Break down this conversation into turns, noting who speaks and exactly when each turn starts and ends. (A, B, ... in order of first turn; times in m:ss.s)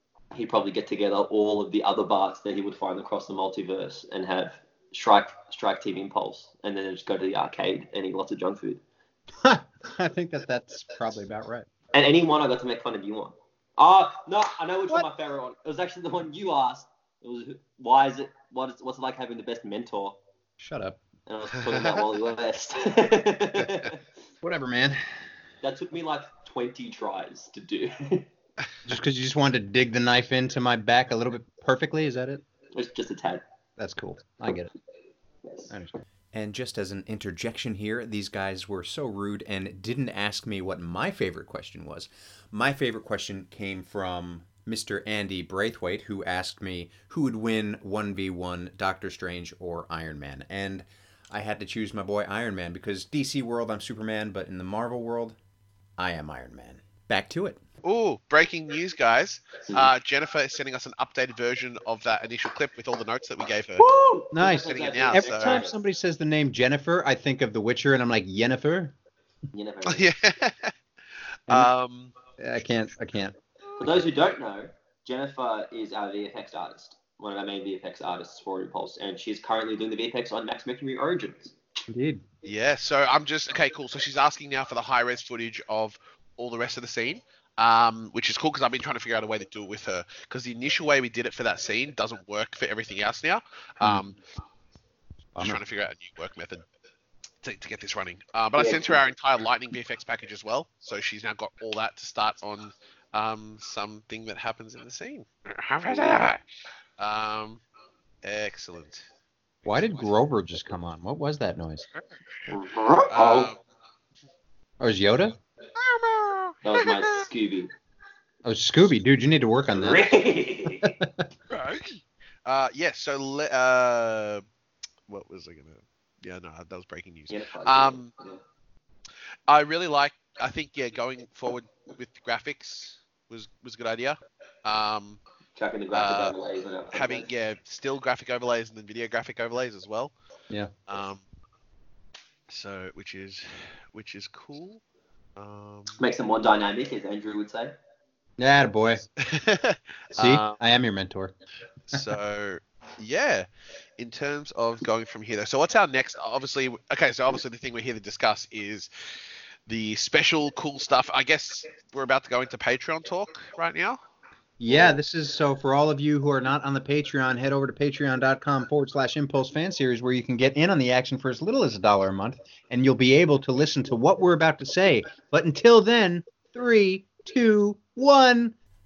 0:00.3-0:08.8 A
0:09.4-0:11.7 B
0:11.9-0:20.2 A
0:20.6-0:21.0 B
0:21.3-0:24.0 A
0:24.4-0:25.0 B
0:25.6-0:28.3 A
0:28.8-0:32.4 B
0:32.7-0:33.4 A
0:33.8-0:34.7 B
0:35.4-0:35.7 A
0:35.7-0:55.4 B
0:56.0-0:57.6 B
0:57.8-1:03.8 C
1:03.8-1:05.8 A
1:04.3-1:08.9 B
1:04.6-1:05.6 C
1:09.5-1:10.1 A
1:09.9-1:10.7 C
1:11.5-1:12.1 C
1:12.4-1:13.3 B
1:13.8-1:21.5 A
1:21.9-1:22.2 B
1:22.4-1:34.2 C
1:35.4-1:36.6 C
1:37.4-1:46.4 C
1:38.6-1:39.0 A
1:47.0-1:47.6 C
1:48.2-1:49.1 C
1:49.6-1:50.1 C
1:49.6-1:51.9 B
1:52.5-1:53.5 A
1:53.1-1:53.6 C
1:54.8-1:55.4 B
1:55.8-1:57.2 C
1:56.6-1:57.7 A
1:58.4-2:00.0 B
1:59.7-2:01.0 A
2:01.5-2:04.4 C
2:05.1-2:08.1 C
2:07.3-2:08.4 A
2:09.5-2:15.2 C
2:15.6-2:17.3 A
2:15.9-2:16.3 C
2:16.9-2:20.1 C
2:20.9-2:21.2 C
2:22.5-2:24.8 C
2:25.4-2:26.0 C
2:25.9-2:27.7 A
2:28.4-2:29.0 B
2:29.2-2:30.6 C
2:30.1-2:31.3 B
2:31.9-2:33.5 C
2:34.0-2:38.9 C
2:39.7-2:44.0 C
2:44.6-2:58.5 B